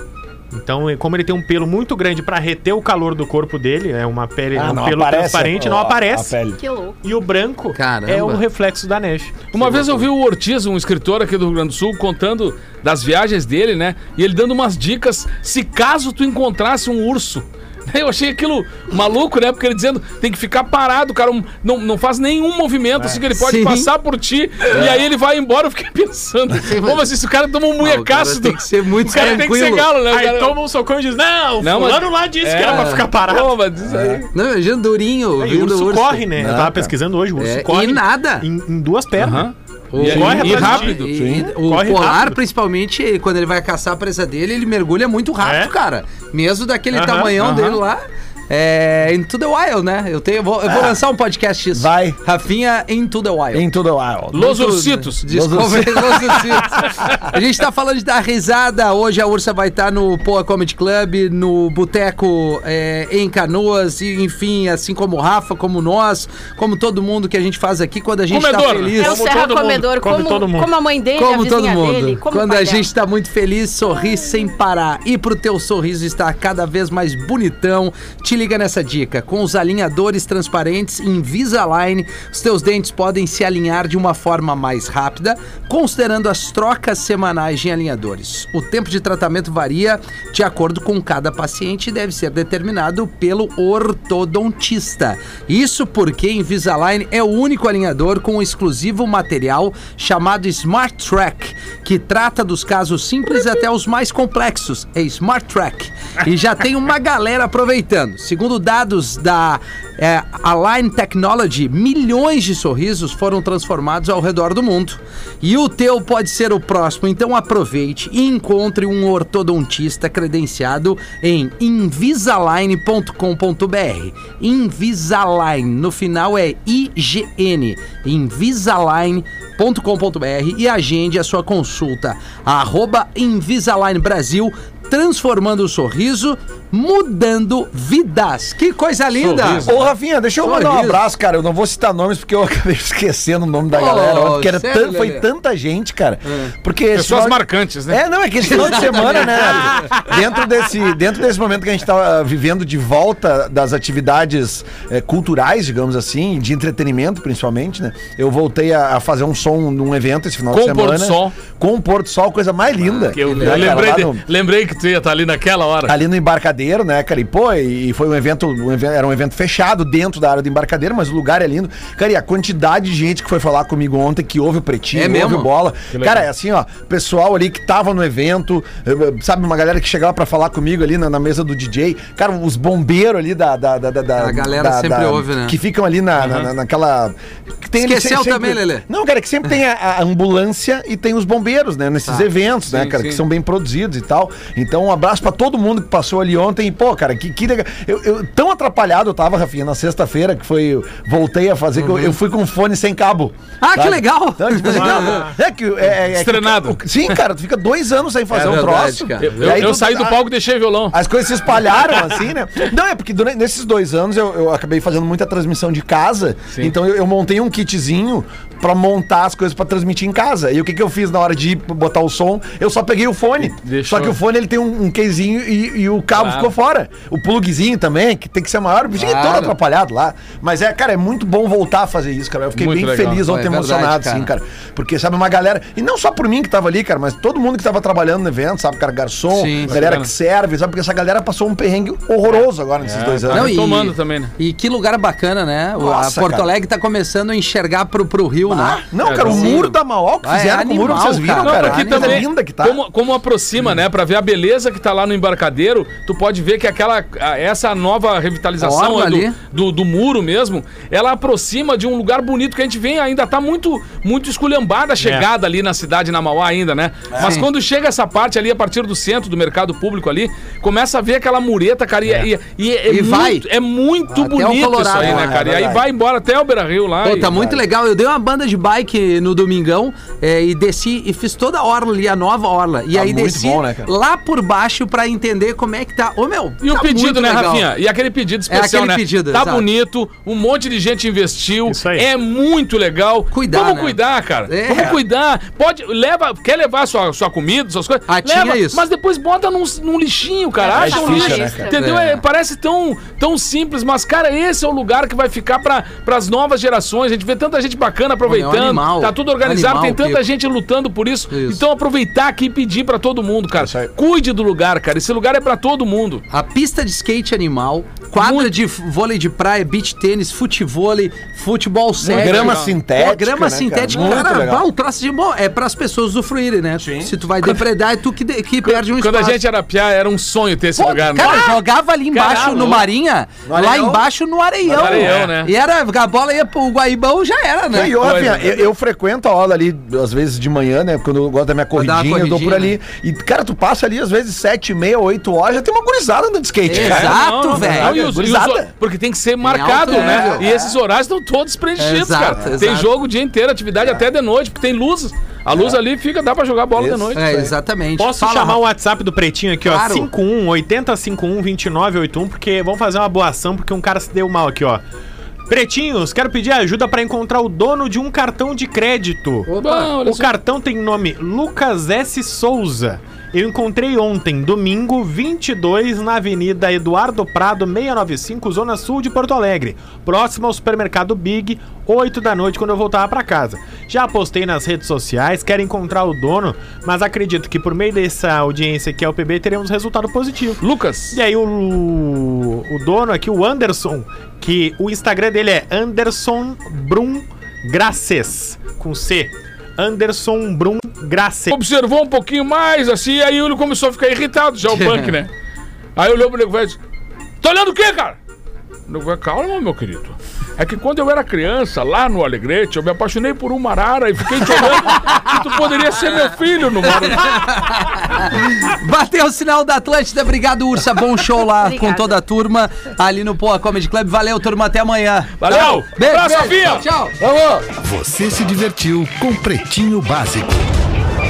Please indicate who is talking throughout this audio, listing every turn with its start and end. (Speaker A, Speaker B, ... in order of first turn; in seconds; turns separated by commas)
Speaker A: 0.5-6.4, Speaker B: 4.5-6.6, Speaker C: 6.6-7.0, Speaker A: 7.0-10.0, Speaker D: 7.7-8.4, Speaker E: 9.5-30.6, Speaker D: 23.4-23.9, Speaker D: 26.6-27.1, Speaker D: 27.8-29.9, Speaker A: 29.1-29.4, Speaker A: 30.1-33.5, Speaker E: 31.6-34.3, Speaker D: 32.7-33.0, Speaker B: 33.8-34.2, Speaker D: 34.3-36.3, Speaker A: 35.4-39.5, Speaker B: 36.4-36.9, Speaker D: 37.4-38.5, Speaker E: 39.2-41.0, Speaker D: 39.9-53.7, Speaker A: 40.0-42.4, Speaker B: 40.1-41.5, Speaker A: 45.4-45.7, Speaker A: 46.9-47.3, Speaker E: 47.4-47.8, Speaker B: 50.6-51.0, Speaker B: 51.7-52.2, Speaker B: 53.5-54.5, Speaker E: 54.3-55.3, Speaker D: 54.3-69.2, Speaker B: 55.3-57.1, Speaker E: 68.3-69.0, Speaker A: 68.9-70.7, Speaker C: 69.0-72.9, Speaker D: 71.2-139.7, Speaker E: 139.2-139.9, Speaker B: 139.6-164.2, Speaker D: 140.4-141.0, Speaker D: 143.7-145.3, Speaker D: 146.2-146.5, Speaker E: 146.9-148.0, Speaker D: 148.4-150.0, Speaker E: 160.5-161.4, Speaker D: 162.8-163.8, Speaker E: 163.1-166.0, Speaker B: 165.8-210.2, Speaker D: 174.9-175.5, Speaker E: 175.9-176.3, Speaker D: 184.2-185.6, Speaker E: 186.2-186.5, Speaker D: 187.8-188.8, Speaker E: 192.7-193.2, Speaker D: 201.8-202.1, Speaker D: 203.6-205.3, Speaker A: 204.7-205.3, Speaker E: 206.0-206.8, Speaker D: 208.3-209.6, Speaker E: 209.2-211.0, Speaker B: 210.9-243.6, Speaker E: 223.4-224.2, Speaker E: 226.2-226.5, Speaker D: 229.0-229.6, Speaker E: 232.6-233.2, Speaker D: 233.2-234.3, Speaker D: 239.3-239.9, Speaker E: 239.7-240.1, Speaker E: 242.2-244.3, Speaker D: 243.3-252.2, Speaker B: 245.8-246.5, Speaker B: 248.4-252.8, Speaker E: 249.0-249.6, Speaker E: 251.4-277.3, Speaker D: 258.6-259.4, Speaker A: 265.0-265.2, Speaker B: 267.1-267.4, Speaker D: 267.2-267.5, Speaker D: 272.9-273.4, Speaker D: 274.1-275.4, Speaker B: 274.9-275.9, Speaker D: 277.0-287.6, Speaker B: 277.2-277.6, Speaker B: 282.9-283.9, Speaker E: 286.6-316.2, Speaker D: 288.5-289.6, Speaker A: 291.7-292.1, Speaker D: 293.3-294.9, Speaker D: 298.1-298.8, Speaker C: 300.6-301.8, Speaker B: 300.7-301.7, Speaker D: 301.7-302.2, Speaker D: 308.2-310.2, Speaker D: 311.3-311.6, Speaker B: 313.6-313.9, Speaker D: 316.3-329.4, Speaker E: 318.1-318.5, Speaker E: 322.0-322.8, Speaker B: 322.1-324.6, Speaker B: 326.8-327.1, Speaker E: 328.6-331.6, Speaker D: 330.8-338.0, Speaker E: 332.1-332.9, Speaker B: 333.4-334.1, Speaker B: 334.6-335.3, Speaker E: 334.7-335.5, Speaker B: 337.7-348.7, Speaker E: 338.0-338.6, Speaker D: 341.7-342.7, Speaker D: 346.7-348.0, Speaker E: 346.7-357.2, Speaker D: 349.4-350.5, Speaker B: 349.8-350.8, Speaker D: 351.8-352.9, Speaker B: 352.3-352.7, Speaker B: 355.5-355.8, Speaker B: 356.7-357.5, Speaker D: 357.1-358.6, Speaker A: 358.0-364.8, Speaker D: 359.6-360.1, Speaker A: 365.5-369.5, Speaker D: 369.5-369.9, Speaker E: 369.6-370.3, Speaker A: 370.0-401.6, Speaker E: 390.6-391.2, Speaker E: 401.5-405.3, Speaker E: 405.9-406.8, Speaker E: 407.4-408.2, Speaker E: 408.9-417.6, Speaker D: 414.9-415.2, Speaker D: 416.8-427.6, Speaker C: 421.5-422.1, Speaker E: 425.4-426.8, Speaker F: 427.8-430.7